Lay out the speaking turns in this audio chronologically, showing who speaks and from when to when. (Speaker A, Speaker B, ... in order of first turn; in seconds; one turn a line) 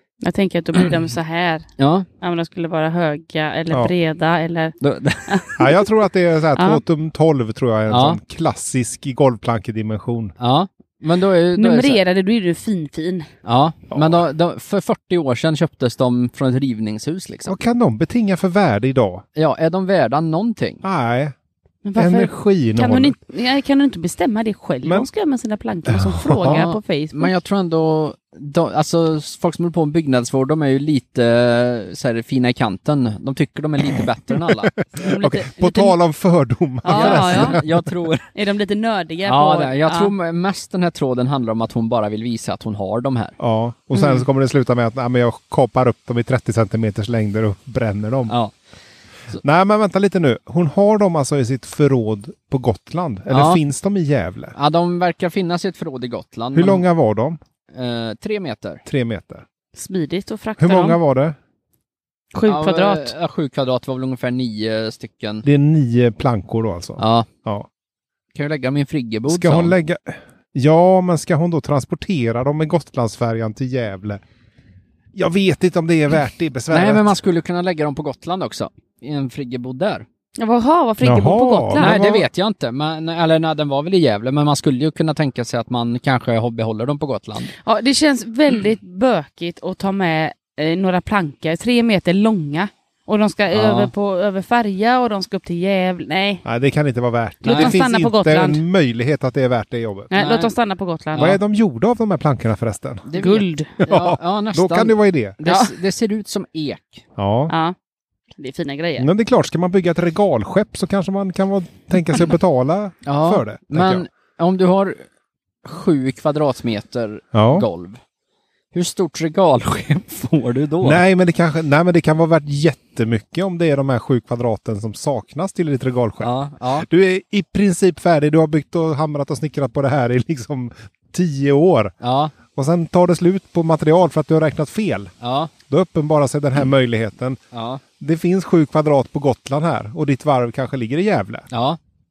Speaker A: 0.2-1.7
Speaker B: 1.8-2.1
Speaker A: 2.2-4.8
Speaker B: 4.8-5.6
Speaker A: 5.3-5.6
Speaker C: 5.6-10.3
Speaker B: 7.9-8.2
Speaker B: 10.4-12.0
Speaker A: 11.6-13.3
Speaker B: 13.4-17.6
Speaker C: 13.9-14.2
Speaker C: 17.5-19.2
Speaker B: 19.4-20.8
Speaker C: 20.8-21.3
Speaker A: 21.9-27.3
Speaker C: 22.0-23.2
Speaker C: 25.9-26.6
Speaker B: 26.4-34.9
Speaker C: 34.5-37.8
Speaker A: 35.0-36.0
Speaker A: 36.8-37.6
Speaker B: 36.9-38.3
Speaker A: 38.3-40.1
Speaker B: 39.2-43.4
Speaker C: 43.4-48.4
Speaker C: 49.4-54.5
Speaker B: 53.3-53.6
Speaker B: 54.6-56.8
Speaker C: 56.5-57.4
Speaker B: 57.7-58.8
Speaker C: 58.9-59.5
Speaker A: 59.8-61.0
Speaker C: 60.6-61.4
Speaker A: 62.3-63.1
Speaker B: 62.5-65.5
Speaker C: 65.4-67.7
Speaker B: 67.0-67.3
Speaker B: 68.3-69.7
Speaker C: 69.3-74.2
Speaker C: 75.1-77.2
Speaker B: 76.7-80.0
Speaker A: 80.4-82.0
Speaker C: 81.0-82.3
Speaker B: 81.8-87.5
Speaker A: 87.6-96.4
Speaker B: 93.5-93.9
Speaker C: 96.5-100.1
Speaker A: 97.4-98.6
Speaker B: 97.5-97.8
Speaker A: 100.1-101.3
Speaker B: 100.2-100.5
Speaker C: 101.2-103.1
Speaker B: 103.1-107.1
Speaker A: 103.1-103.7
Speaker C: 103.8-105.4
Speaker A: 105.5-105.7
Speaker C: 107.2-107.5
Speaker A: 107.5-107.8
Speaker A: 108.4-109.1
Speaker C: 109.0-114.0
Speaker B: 113.1-115.0
Speaker B: 115.6-118.0
Speaker C: 117.3-117.7
Speaker B: 118.7-121.0
Speaker C: 120.8-131.9
Speaker B: 126.2-126.9
Speaker B: 132.0-132.3
Speaker C: 132.5-135.1
Speaker B: 135.2-135.5
Speaker C: 135.7-137.4
Speaker B: 137.5-137.8
Speaker C: 138.0-141.5
Speaker B: 141.5-141.8